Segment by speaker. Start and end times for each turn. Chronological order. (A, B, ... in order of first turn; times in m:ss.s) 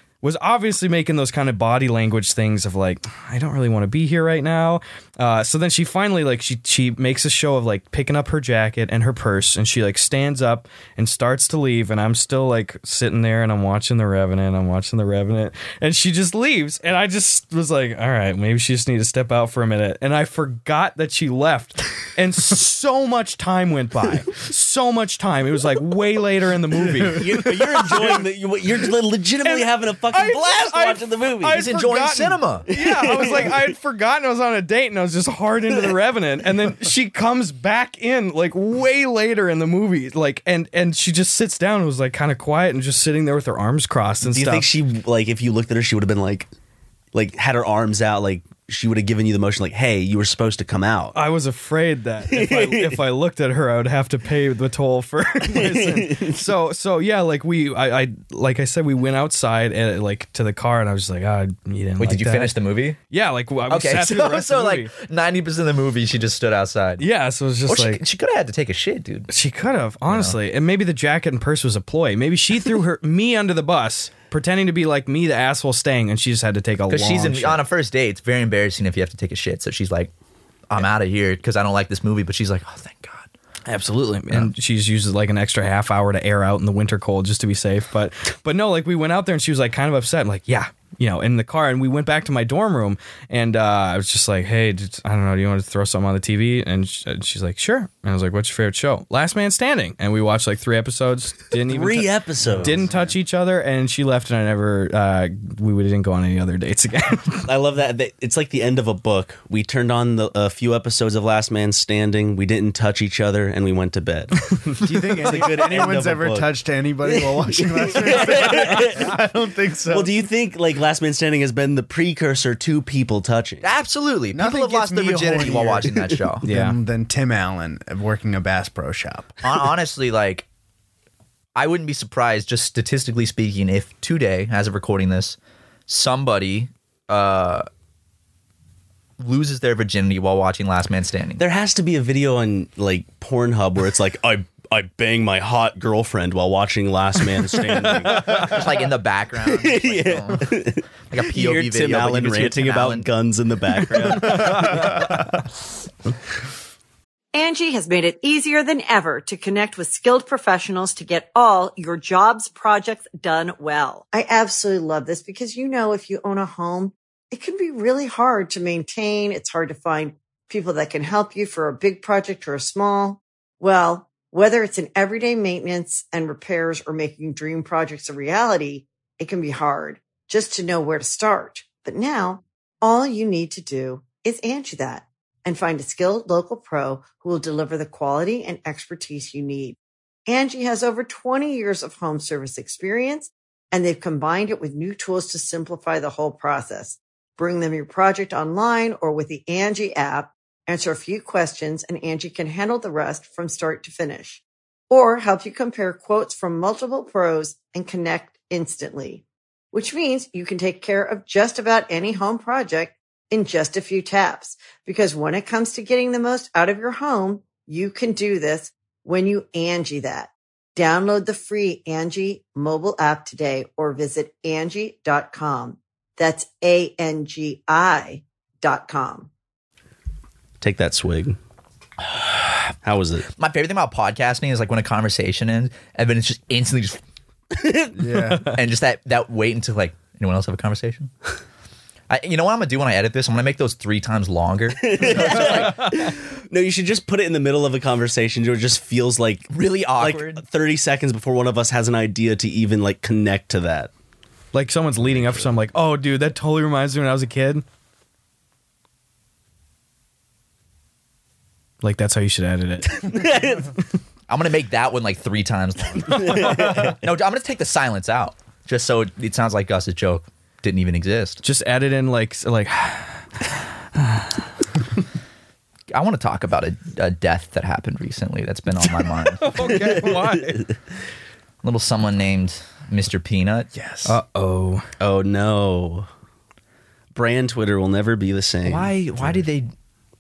0:00.2-0:28.2 A
0:27.1-0:31.6 B
0:29.4-0:44.7 A
0:31.5-0:32.7 C
0:32.7-0:33.6 B
0:44.2-0:46.5 B
0:47.1-0:51.2 B
0:51.1-1:02.5 A
0:52.3-0:53.0 B
0:55.5-0:56.4 B
1:02.0-1:03.0 C
1:03.1-1:04.9 A
1:03.7-1:07.0 C
1:07.0-1:08.0 A
1:07.7-1:09.3 C
1:09.3-1:17.6 A
1:10.1-1:10.4 C
1:16.9-1:20.1 C
1:20.7-1:23.3 C
1:23.6-1:47.5 A
1:41.6-1:42.9 B
1:42.4-1:43.1 D
1:47.4-1:54.4 B
1:54.4-1:55.4 A
1:54.8-2:00.1 D
1:55.2-1:56.5 B
1:57.0-1:59.2 B
1:59.9-2:03.7 B
2:03.6-2:06.4 C
2:04.3-2:09.4 D
2:06.4-2:06.8 A
2:09.4-2:10.4 C
2:11.6-2:15.4 C
2:15.9-2:17.6 C
2:19.2-2:21.4 C
2:21.4-2:28.6 B
2:27.7-2:28.6 A
2:28.2-2:33.1 C
2:29.4-2:35.2 B
2:34.2-2:35.0 A
2:37.3-3:49.3 E
3:50.6-3:51.4 B
3:52.1-3:52.7 C
3:52.8-3:53.3 B
3:53.3-3:57.0 C
3:57.5-3:57.9 B
3:57.9-3:58.6 D
3:58.4-4:01.1 C
4:02.1-4:05.9 C
4:04.8-4:13.9 B
4:09.5-4:10.4 C
4:14.5-4:17.6 A
4:21.8-4:23.3 A
4:22.9-4:23.7 B
4:24.3-4:31.4 C
4:26.0-4:26.9 B
4:31.4-4:34.3 A
4:35.9-4:39.7 C
4:39.3-4:40.7 A
4:39.7-4:40.6 B
4:41.6-4:43.7 C
4:43.7-4:44.2 D
4:44.0-4:44.9 A
4:45.0-4:46.1 B
4:47.1-4:48.9 B
4:48.6-4:49.7 C